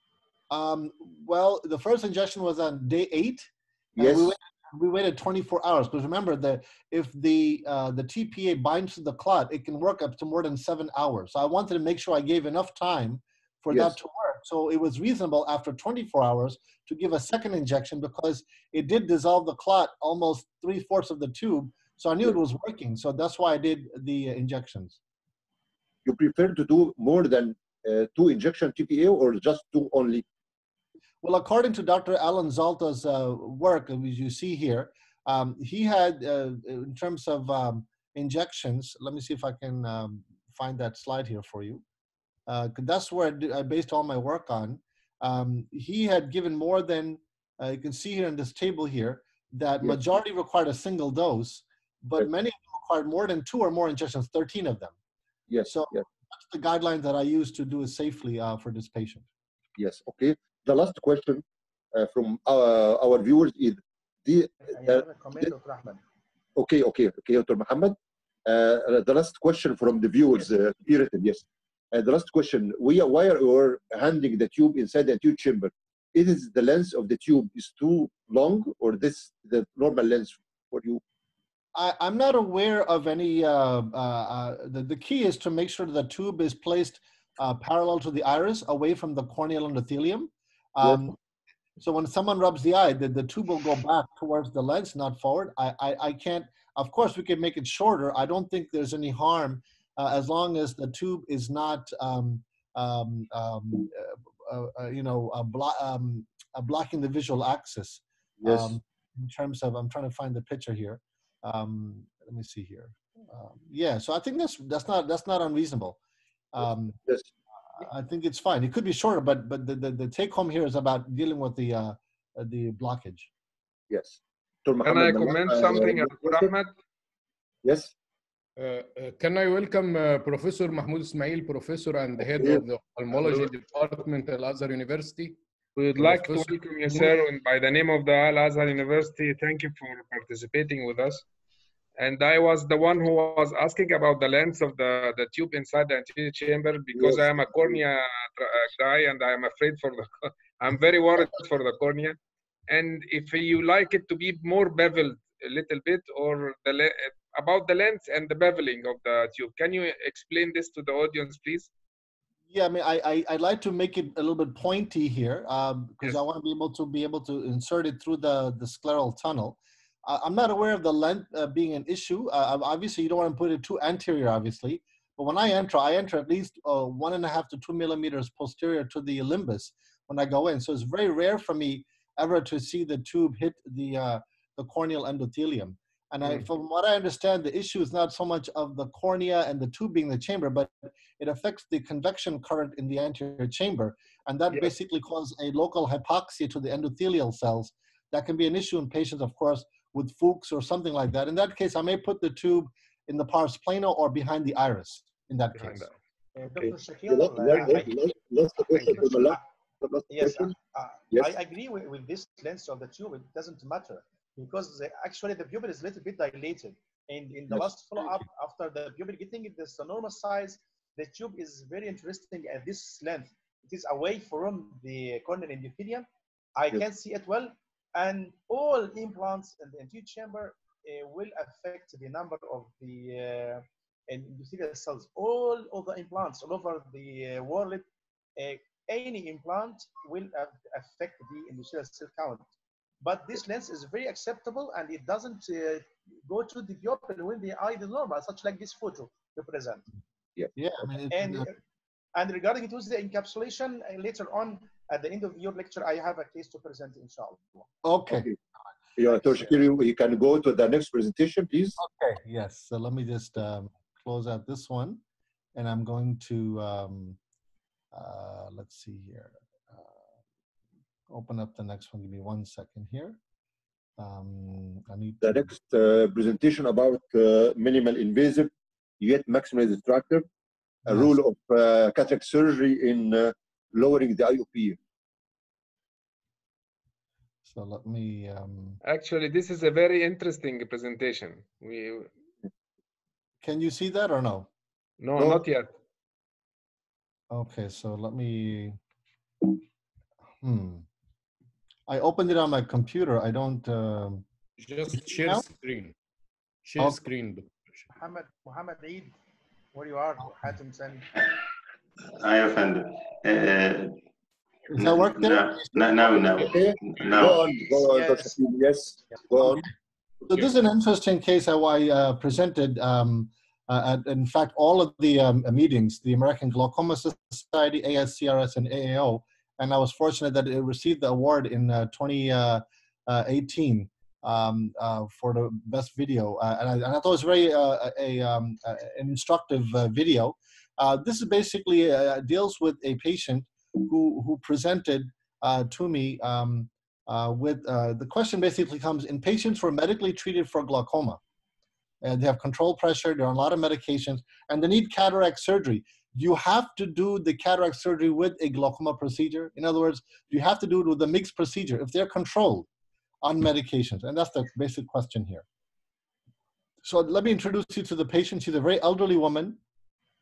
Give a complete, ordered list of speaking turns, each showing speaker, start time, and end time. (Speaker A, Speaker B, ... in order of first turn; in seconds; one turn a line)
Speaker A: 0.5-25.0
Speaker B: 4.0-4.3
Speaker B: 26.0-30.2
Speaker A: 31.2-41.8
Speaker A: 42.5-54.9
Speaker B: 55.5-56.0
Speaker A: 55.7-59.2
Speaker B: 59.8-65.5
Speaker C: 64.7-66.0
Speaker B: 66.5-81.0
Speaker A: 81.7-91.1
Speaker A: 91.8-116.0
Speaker B: 108.4-108.8
Speaker A: 116.5-117.0
Speaker A: 117.8-123.3
Speaker B: 123.9-126.5
Speaker D: 124.8-126.7
Speaker B: 127.6-127.9
Speaker E: 128.6-135.4
Speaker B: 132.3-132.6
Speaker D: 135.8-141.2
Speaker E: 135.9-137.1
Speaker D: 142.0-152.2
Speaker B: 147.0-147.8
Speaker D: 152.7-161.7
Speaker A: 162.5-205.8
Speaker D: 205.6-205.9
Speaker C: 206.3-208.1
Speaker B: 207.1-210.5
Speaker C: 208.6-209.4
Speaker C: 210.1-237.8
Speaker C: 238.4-242.4
Speaker C: 243.0-249.8
Speaker A: 250.6-251.5
Speaker C: 251.1-251.5
Speaker C: 252.1-257.7
Speaker A: 257.8-258.3
Speaker B: 258.1-258.4
Speaker B: 259.0-261.7
Speaker C: 259.1-259.5
Speaker A: 261.8-265.0
Speaker A: 265.5-267.2
Speaker A: 267.9-269.9
Speaker A: 271.1-273.2
Speaker A: 274.0-275.5
Speaker B: 275.2-280.3
Speaker A: 280.9-281.2
Speaker B: 280.9-284.8
Speaker A: 287.4-288.8
Speaker D: 288.8-292.1
Speaker A: 293.4-294.5
Speaker D: 295.0-295.7
Speaker B: 295.1-295.4
Speaker A: 297.3-298.8
Speaker A: 300.4-300.9
Speaker A: 301.9-304.2
Speaker E: 304.6-305.9
Speaker E: 306.6-307.8
Speaker C: 307.9-309.1
Speaker C: 309.7-311.1
Speaker F: 312.2-314.0
Speaker A: 314.7-315.6
Speaker F: 314.8-317.7
Speaker B: 316.0-319.7
Speaker C: 317.8-318.4
Speaker A: 320.2-351.2
Speaker A: 352.0-362.7
Speaker A: 363.2-365.4
Speaker A: 366.8-369.6